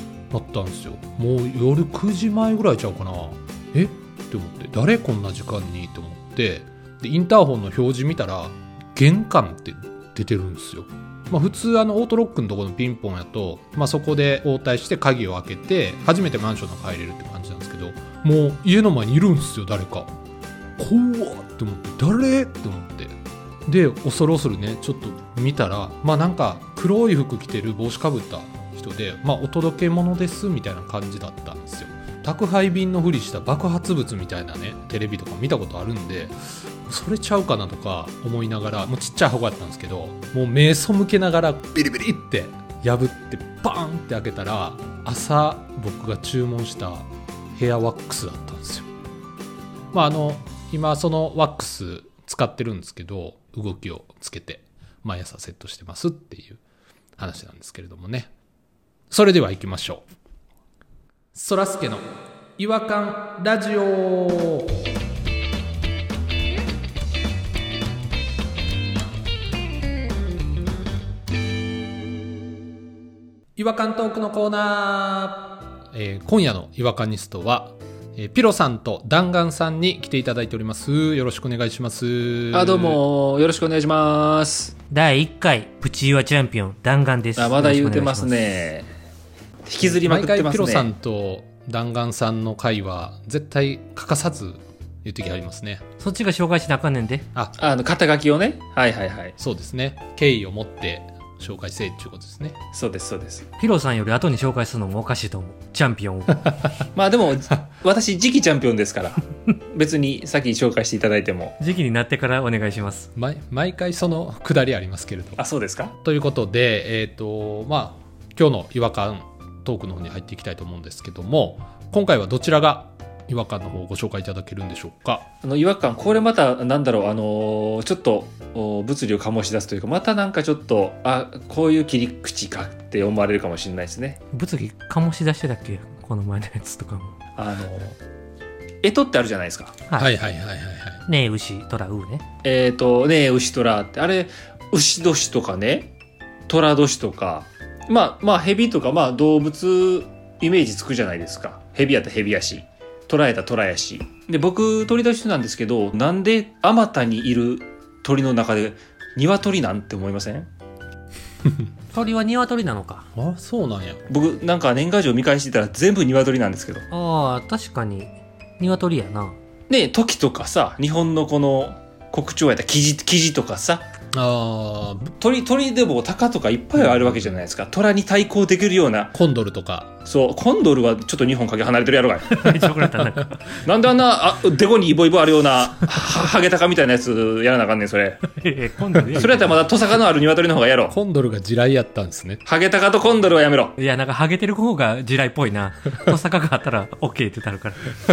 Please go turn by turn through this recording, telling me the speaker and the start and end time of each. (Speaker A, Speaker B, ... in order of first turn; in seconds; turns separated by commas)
Speaker A: 0.3-20.1, Speaker A: 20.8-48.9, Speaker A: 49.9-56.6, Speaker A: 57.2-58.3, Speaker A: 59.1-60.0, Speaker A: 61.3-64.7, Speaker A: 73.6-83.0, Speaker B: 82.5-84.7, Speaker C: 84.9-88.4, Speaker B: 87.4-88.9, Speaker B: 89.6-90.9, Speaker A: 89.8-95.8, Speaker C: 96.0-97.2, Speaker B: 97.6-99.3, Speaker A: 99.4-102.6, Speaker B: 102.7-103.5, Speaker C: 103.6-106.7, Speaker B: 106.9-111.5, Speaker C: 111.6-113.1, Speaker A: 113.1-115.4, Speaker B: 115.4-115.9, Speaker A: 116.0-125.2, Speaker B: 125.4-134.2, Speaker C: 134.3-137.2, Speaker B: 137.4-138.0, Speaker B: 138.8-139.8, Speaker A: 139.9-141.0, Speaker C: 141.1-142.2, Speaker B: 142.4-145.9, Speaker B: 146.5-160.5, Speaker C: 161.9-163.1, Speaker A: 163.2-164.0, Speaker B: 164.1-166.8, Speaker C: 166.9-169.3, Speaker B: 169.7-173.8, Speaker A: 174.1-175.1, Speaker B: 175.2-179.1, Speaker A: 179.1-179.9, Speaker B: 180.0-182.5, Speaker C: 182.3-183.4, Speaker A: 182.6-183.1, Speaker B: 183.6-188.2, Speaker C: 188.3-189.6, Speaker B: 189.1-190.9, Speaker A: 190.9-192.4, Speaker B: 192.4-193.8, Speaker C: 193.8-197.9